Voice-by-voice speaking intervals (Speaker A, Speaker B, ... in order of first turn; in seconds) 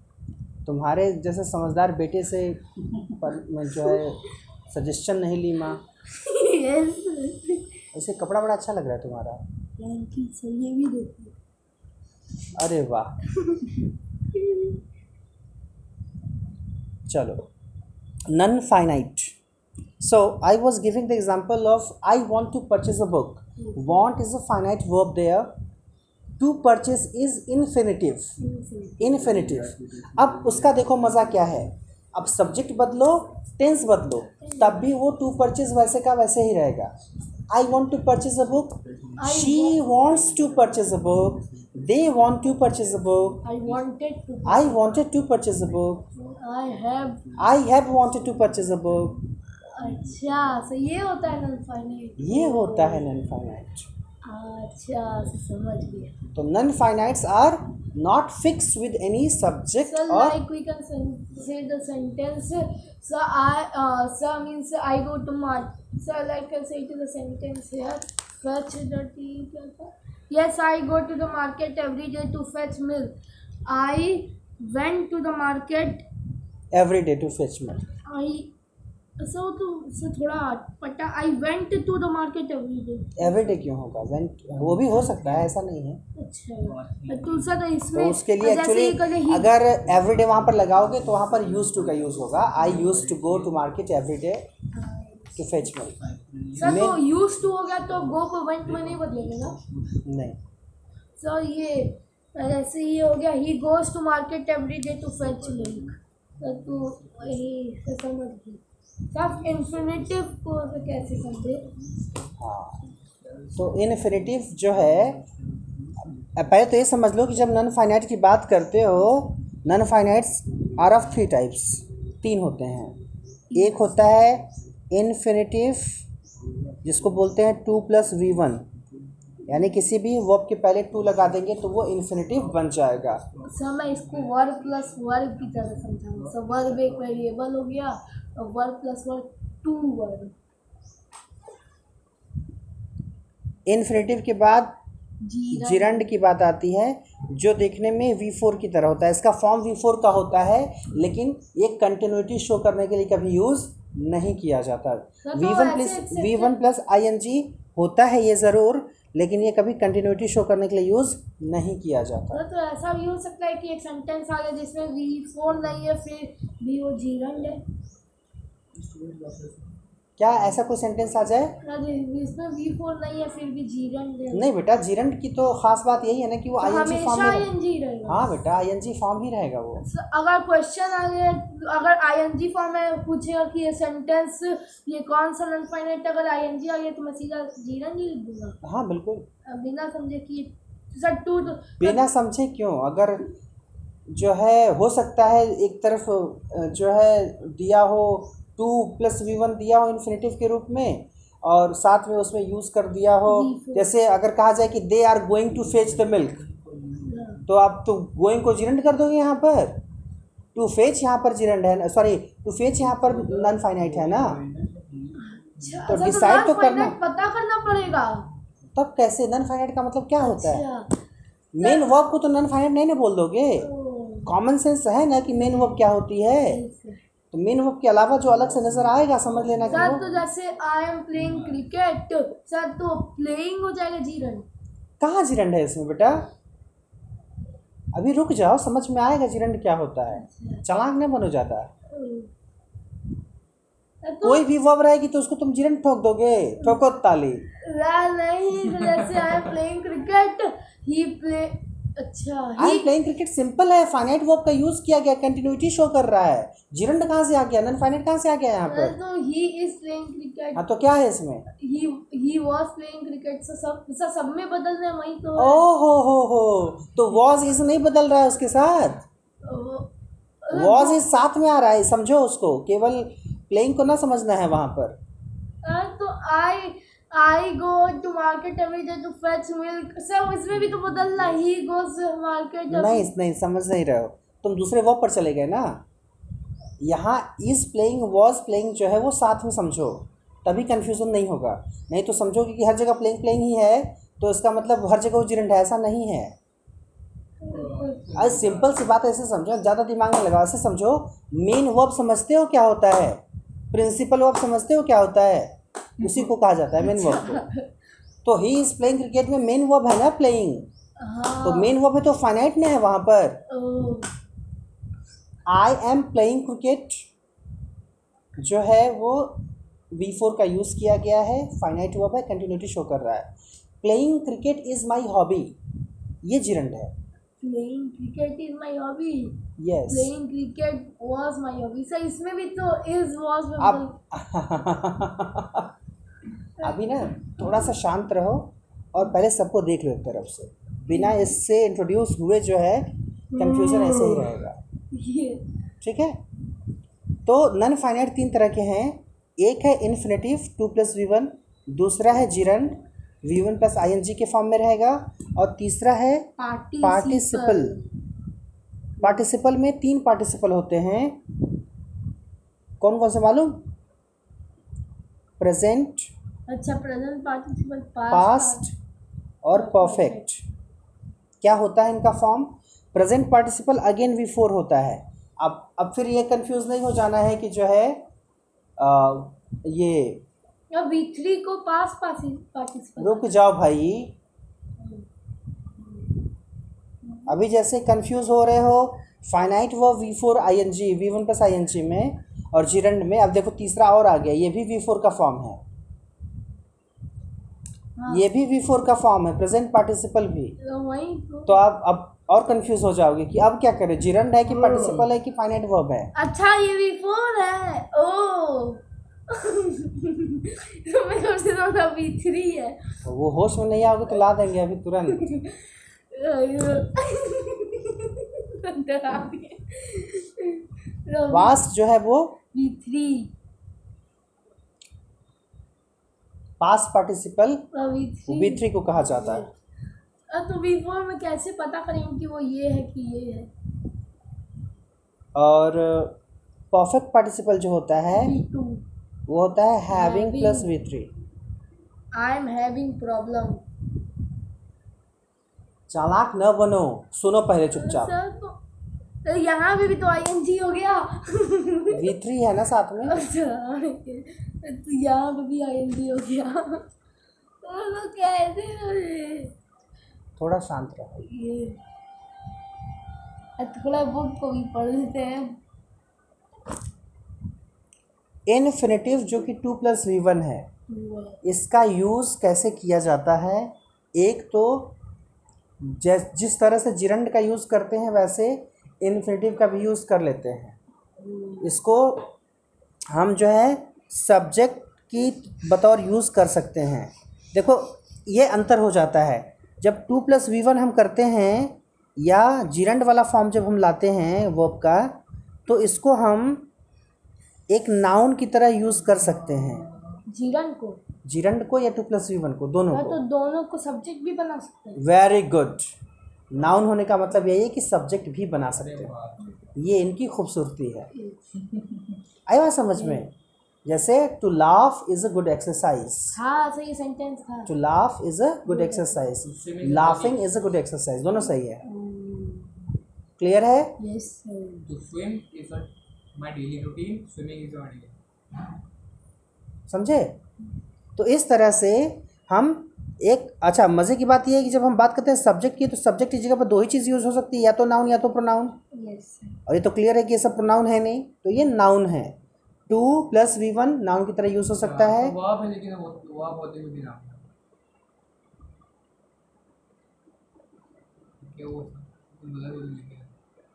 Speaker A: 0.6-5.8, 7.9-9.4, 12.5-13.2, 17.1-17.5, 18.3-19.3, 20.0-25.6, 26.4-28.3, 29.0-36.9, 37.5-43.4, 44.4-46.0, 47.4-49.4, 52.2-53.9, 56.3-60.4, 76.7-77.9, 83.2-86.0, 87.9-94.5, 95.4-96.0, 96.6-97.0, 100.0-100.4, 112.4-112.9, 113.5-115.2, 116.3-123.0, 123.5-126.0, 126.8-128.6, 129.5-133.2, 143.7-144.8, 145.5-162.4, 170.2-171.6, 174.3-177.5, 178.1-179.9, 188.6-189.2, 191.8-193.2, 194.1-206.4, 207.4-209.8, 210.5-214.4, 215.9-216.9, 218.8-220.6, 221.5-223.7, 224.2-226.6, 227.3-230.0, 235.0-236.3, 237.9-241.7, 244.2-247.5, 252.6-258.9, 260.6-261.4, 265.4-269.0, 270.5-275.0, 282.7-285.8, 286.8-296.3, 298.1-307.5, 308.2-310.7, 311.4-313.4, 315.5-317.1, 318.4-325.6, 326.2-326.9, 329.6-330.1, 333.6-335.7, 336.6-344.6, 345.8-346.2, 347.2-356.3, 356.8-357.7, 359.0-361.2, 362.8-363.7, 365.4-366.1, 368.1-368.7, 369.4-370.4, 371.4-378.0, 378.8-380.2, 383.0-384.1, 387.2-395.6, 398.1-400.6, 401.4-406.1, 413.0-415.2, 421.3-422.4, 426.6-427.6, 428.2-429.5, 435.3-436.2, 436.7-438.3, 439.3-441.1, 445.9-448.1, 451.9-453.2, 460.4-461.2, 468.4-470.7, 471.4-474.9, 475.8-480.8, 481.6-482.3, 483.1-496.7, 497.7-499.9, 501.2-503.2, 505.0-505.9, 506.5-509.1, 509.7-511.1, 512.5-513.3, 513.8-516.4, 517.6-521.8, 523.4-523.9, 529.9-530.3, 531.1-538.8, 539.7-542.4, 542.9-545.3
Speaker B: 6.1-7.8, 9.8-11.3, 13.3-14.8, 23.6-24.1, 28.4-29.0, 34.4-34.9, 39.2-39.8, 43.4-44.9, 46.4-47.2, 49.7-53.1, 54.2-56.1, 59.8-73.1, 73.7-76.0, 78.0-78.5, 79.2-83.3, 86.2-89.5, 94.7-95.5, 96.6-99.5, 101.2-111.6, 123.5-124.1, 133.4-140.3, 145.2-146.1, 155.2-156.7, 162.3-167.6, 171.6-174.5, 176.6-178.3, 179.8-188.6, 189.4-192.0, 203.3-203.9, 207.0-207.4, 215.2-218.2, 220.2-220.9, 221.6-222.0, 223.6-224.3, 225.5-225.7, 226.5-227.0, 229.7-234.4, 240.1-240.6, 241.9-242.3, 244.0-244.4, 247.6-252.9, 258.7-260.6, 261.6-265.6, 269.4-269.9, 270.4-271.1, 275.6-283.1, 297.4-298.1, 306.8-307.7, 311.0-311.7, 313.5-314.1, 327.4-334.0, 336.6-336.9, 340.9-341.3, 343.4-344.2, 344.9-345.4, 356.4-357.8, 366.5-368.6, 369.5-370.2, 380.7-383.3, 384.8-385.1, 385.8-386.0, 387.0-387.3, 398.0-398.3, 400.6-401.6, 406.1-412.9, 415.1-421.6, 422.5-423.3, 427.7-429.5, 430.3-433.5, 438.1-438.8, 439.9-440.7, 442.1-443.6, 447.7-448.6, 449.2-452.1, 453.1-456.9, 457.6-459.5, 461.2-461.8, 463.6-465.6, 470.9-471.4, 481.2-481.7, 500.3-501.0, 502.9-505.0, 511.1-511.4, 513.0-513.2, 516.3-517.7, 518.6-519.2, 521.8-522.9, 524.0-524.9, 538.9-539.6
Speaker C: 29.0-31.7, 34.4-35.8, 37.9-43.8, 44.6-49.1, 49.8-50.8, 55.0-56.4, 61.4-62.3, 84.5-85.5, 86.6-87.6, 89.8-93.8, 95.7-100.1, 105.0-107.5, 109.2-116.3, 123.9-124.6, 126.4-129.1, 130.9-137.3, 168.7-169.8, 205.5-207.4, 212.8-216.0, 217.6-218.7, 228.2-230.3, 231.1-231.6, 280.7-281.2, 297.5-299.0, 499.0-500.2, 508.7-509.4, 519.5-520.5, 524.9-528.2, 544.8-547.5, 551.4-553.3